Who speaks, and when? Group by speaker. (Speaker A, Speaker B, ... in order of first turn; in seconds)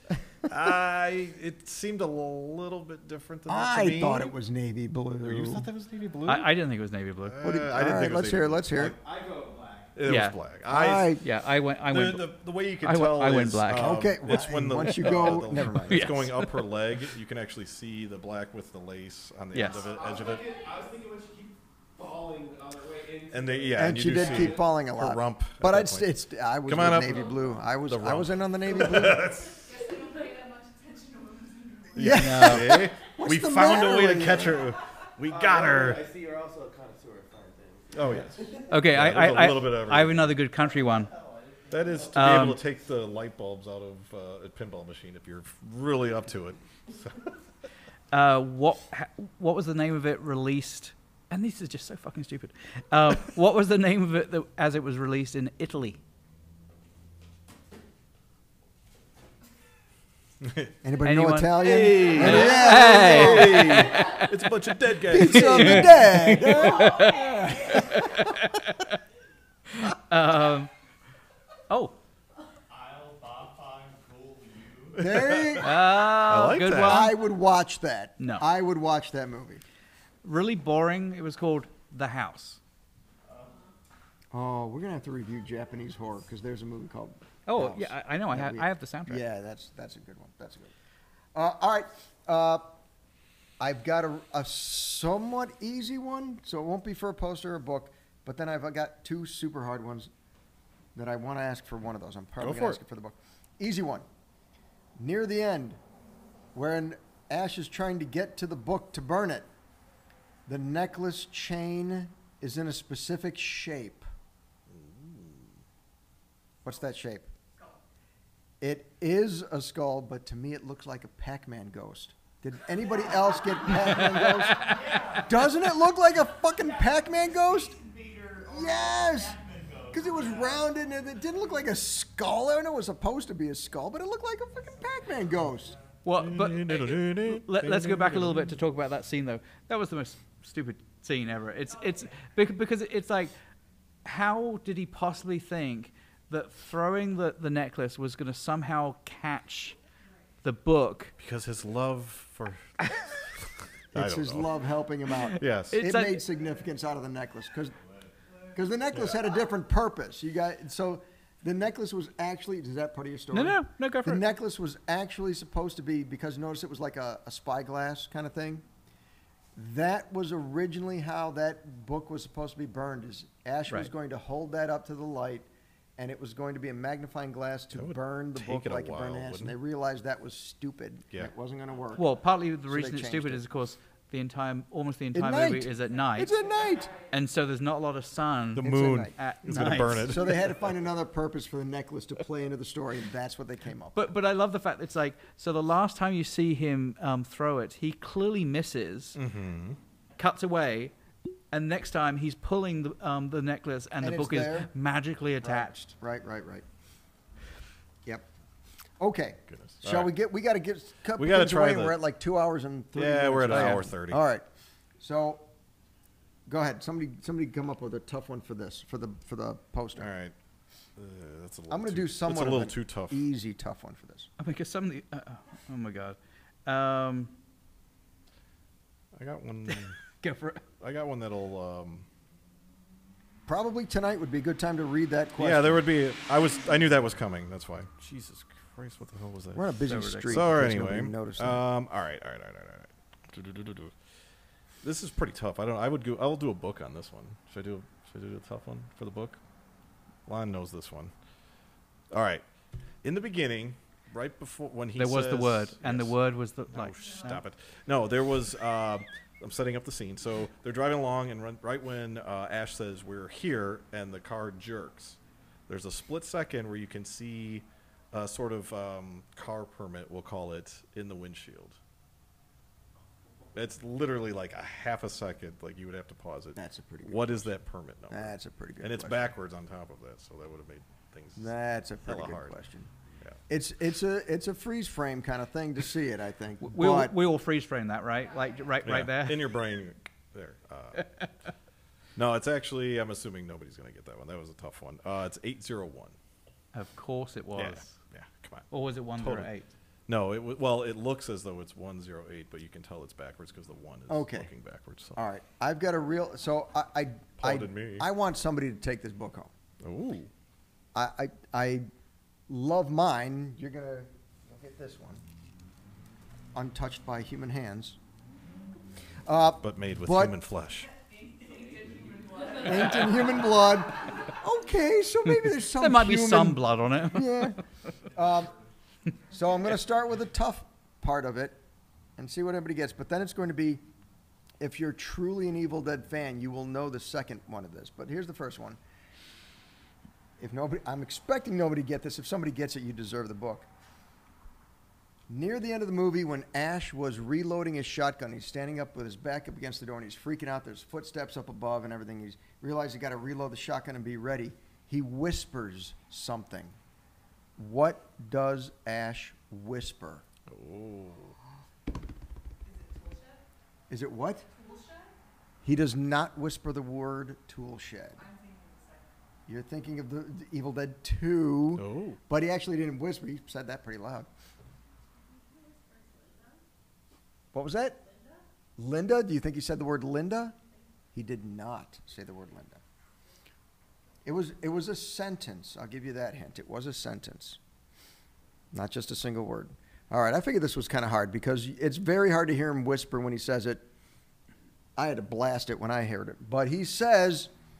Speaker A: 0.5-4.3, 5.2-6.5, 7.2-8.9, 9.9-11.2, 11.9-20.4, 23.3-29.7, 31.9-36.0, 37.9-40.4, 41.7-47.3, 60.4-60.7, 61.6-66.1, 75.0-77.1, 102.4-102.8, 114.7-115.5, 136.1-138.6, 151.2-152.7, 153.9-154.5, 155.3-155.8, 177.7-179.6, 188.6-190.6, 199.2-199.8, 209.5-210.1, 211.2-212.0, 212.9-214.2, 220.0-220.3, 220.9-223.2, 229.2-230.0, 230.8-232.1, 235.4-239.8, 240.3-243.9, 244.8-249.4, 250.2-251.1, 252.1-252.4, 253.0-256.2, 256.7-271.8, 273.5-281.5, 282.0-282.6, 288.8-291.1, 292.1-296.1, 297.6-299.5, 300.1-305.2, 307.4-308.1, 309.8-310.3, 319.6-320.9, 360.5-361.3, 371.7-372.2
Speaker B: 3.5-5.7, 7.4-8.9, 10.7-11.2, 13.7-16.1, 23.7-29.2, 31.9-34.7, 60.8-64.0, 65.1-68.3, 75.0-75.8, 76.7-79.6, 84.3-90.7, 91.3-92.8, 93.6-100.1, 100.9-104.0, 105.0-105.8, 106.5-109.5, 110.5-114.1, 116.6-117.3, 118.6-127.8, 128.4-129.4, 129.9-135.7, 153.9-157.7, 158.5-168.6, 169.5-183.4, 185.1-186.9, 188.6-189.1, 190.0-194.1, 204.0-204.7, 205.4-206.6, 209.0-214.4, 215.0-215.5, 216.5-220.1, 221.7-224.3, 233.5-235.8, 239.5-241.6, 276.6-277.5, 278.1-279.2, 281.4-282.9, 283.5-287.1, 304.1-304.5, 305.1-309.5, 310.9-311.9, 312.5-315.2, 316.5-318.0, 319.2-320.4, 322.6-327.6, 328.1-328.5, 329.3-331.6, 332.2-333.8, 334.6-338.8, 340.4-343.7, 345.3-356.8, 357.6-360.2, 363.9-364.4, 365.6-368.2, 369.5-374.3, 377.5-378.0, 378.8-380.6, 381.1-382.8, 384.2-387.6, 388.7-393.8, 394.9-397.5
Speaker C: 6.2-7.4, 10.1-10.4, 11.2-14.0, 15.7-16.7, 19.5-19.9, 32.1-32.8, 38.7-41.1, 42.1-42.6, 48.1-56.0, 61.0-64.4, 65.1-68.9, 69.7-70.7, 71.7-72.0, 75.6-77.2, 78.2-78.5, 80.2-82.6, 87.5-89.2, 136.0-143.3, 144.0-149.8, 150.4-151.1, 155.2-156.2, 163.3-164.2, 182.0-186.4, 187.1-190.3, 193.9-199.2, 200.2-200.9, 201.5-205.9, 224.4-227.3, 230.2-230.6, 239.9-240.4, 255.0-257.4, 286.6-289.5, 296.7-297.9, 298.7-299.7, 325.6-327.6
Speaker D: 8.8-9.9, 19.6-24.7, 35.2-38.7, 40.5-42.4
Speaker E: 29.6-32.0, 67.0-67.5, 117.5-117.8, 124.8-125.2, 186.3-187.1, 320.9-323.5, 362.6-363.4, 364.5-365.1, 368.1-369.2, 375.4-376.6
Speaker F: 72.7-75.1, 83.3-83.6, 124.8-125.3, 127.8-130.8, 135.6-135.9, 157.8-158.1